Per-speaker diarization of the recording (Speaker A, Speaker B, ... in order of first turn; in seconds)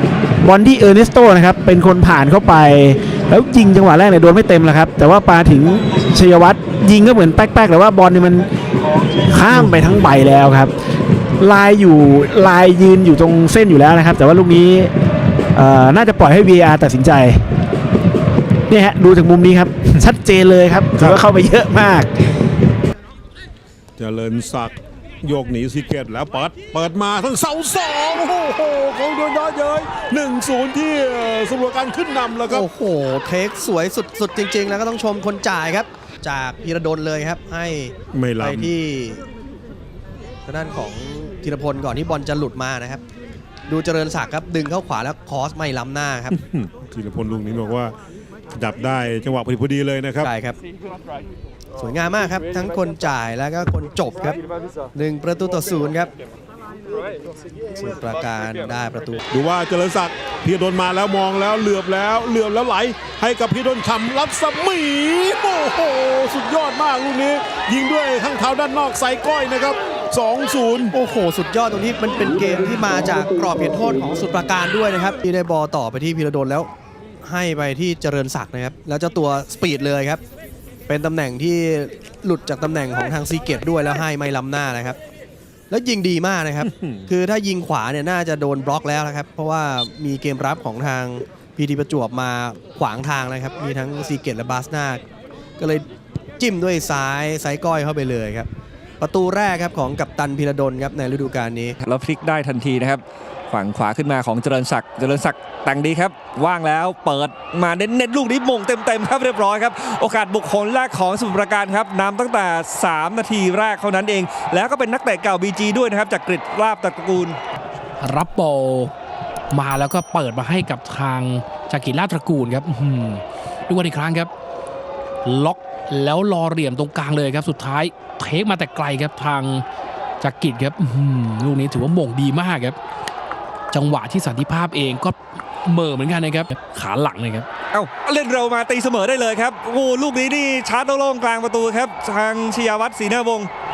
Speaker A: 0.4-8.5, 9.2-10.7, 11.4-14.9, 15.6-17.4, 18.7-22.1
Speaker B: 24.0-32.7, 38.1-38.8, 46.3-47.9, 48.5-50.3, 59.3-71.0
Speaker C: 32.5-39.2, 40.5-43.0, 43.7-46.3, 50.2-50.6, 51.8-54.4, 54.9-56.1, 57.8-59.2, 70.9-76.7, 77.2-80.2, 80.9-85.0, 85.7-95.0, 95.6-101.8
Speaker D: 101.8-117.4, 137.7-143.5
Speaker E: 118.0-118.9, 119.5-124.3, 125.2-129.6, 130.2-132.8, 133.7-137.4